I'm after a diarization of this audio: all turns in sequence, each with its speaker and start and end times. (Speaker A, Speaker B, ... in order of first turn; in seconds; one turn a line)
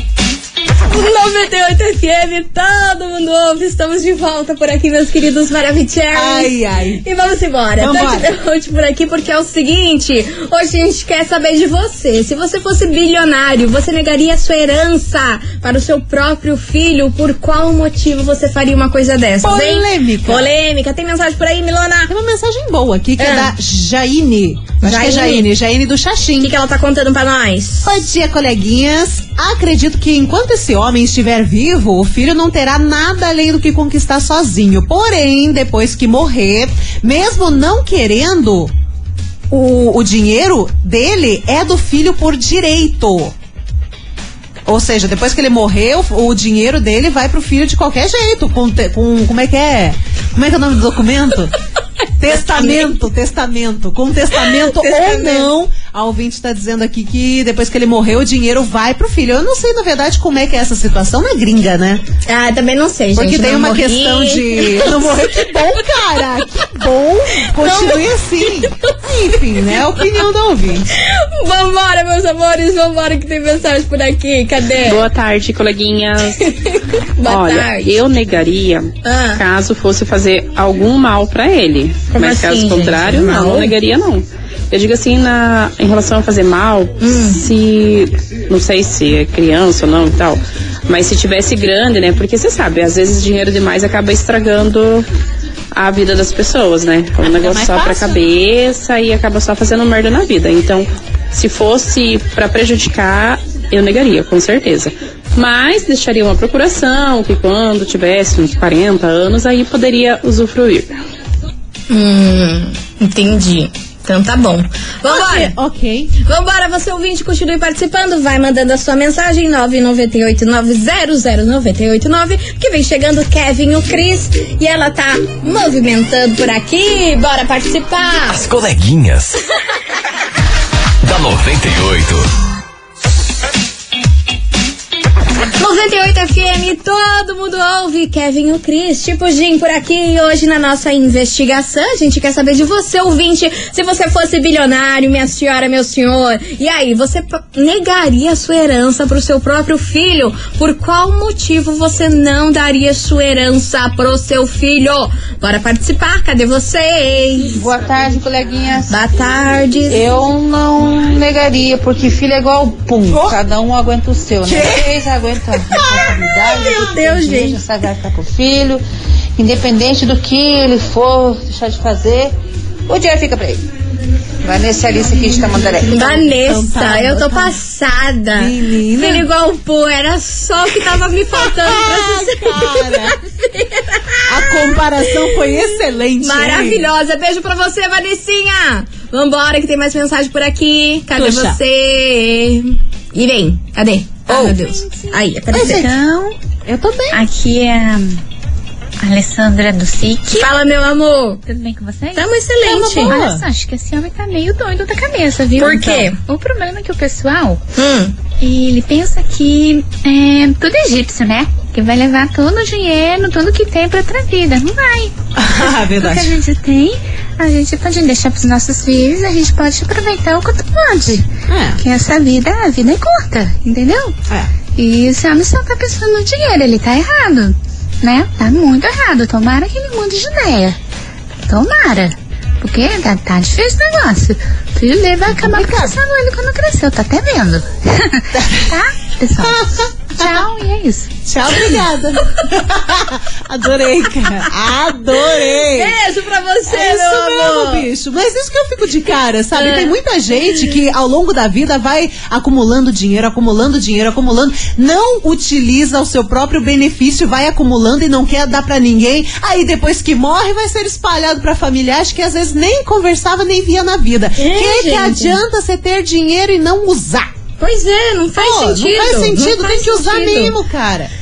Speaker A: 0.9-22.1
Speaker B: 6.1-7.0
Speaker B: 7.8-8.3
Speaker B: 19.4-20.5
Speaker B: 22.1-26.5
Speaker A: 23.2-23.5
Speaker A: 24.8-25.5
Speaker A: 26.4-27.9
Speaker B: 27.8-38.7
Speaker B: 39.5-43.3
Speaker B: 44.7-51.5
Speaker B: 52.2-62.0
Speaker A: 52.6-52.9
Speaker A: 54.4-55.5
Speaker A: 62.2-65.5
Speaker B: 63.1-70.9
Speaker A: 67.6-67.9
Speaker A: 71.0-75.0
Speaker C: 74.8-76.5
Speaker A: 76.4-78.0
Speaker C: 77.2-95.1
Speaker A: 79.0-79.4
Speaker A: 82.1-83.7
Speaker A: 87.0-87.4
Speaker C: 95.7-110.9
Speaker B: 97.2-98.2
Speaker A: 111.9-115.5
Speaker B: 115.1-116.1
Speaker A: 116.2-128.4
Speaker D: 128.3-129.4
Speaker D: 131.0-132.3
Speaker A: 135.6-157.6
Speaker E: 157.5-158.9
Speaker A: 158.9-160.1
Speaker E: 159.9-168.8
Speaker B: 164.4-164.8
Speaker A: 166.4-167.7
Speaker E: 169.4-172.3
Speaker E: 172.9-173.6
Speaker E: 174.4-176.2
Speaker B: 175.3-177.6
Speaker A: 175.9-185.6
Speaker B: 178.4-179.3
Speaker B: 181.3-183.2
Speaker B: 184.3-186.8
Speaker A: 186.2-195.8
Speaker B: 191.1-191.6
Speaker B: 194.3-194.6
Speaker B: 195.5-195.9
Speaker F: 195.6-196.3
Speaker B: 196.7-197.2
Speaker F: 197.1-198.2
Speaker F: 199.0-200.5
Speaker A: 200.3-201.4
Speaker F: 201.4-202.3
Speaker A: 202.1-203.2
Speaker B: 202.6-203.4
Speaker F: 202.9-207.6
Speaker A: 205.6-206.2
Speaker B: 205.6-206.0
Speaker A: 207.8-208.1
Speaker F: 208.4-215.1
Speaker B: 215.3-216.4
Speaker F: 215.9-221.3
Speaker B: 221.5-221.8
Speaker F: 221.8-224.1
Speaker F: 224.8-230.8
Speaker F: 231.4-241.1
Speaker B: 235.3-236.0
Speaker B: 238.3-238.6
Speaker B: 239.4-240.4
Speaker B: 241.2-245.9
Speaker A: 245.4-247.8
Speaker B: 246.7-267.3
Speaker A: 249.5-249.9
Speaker A: 264.4-265.4
Speaker A: 267.6-270.5
Speaker B: 268.4-271.1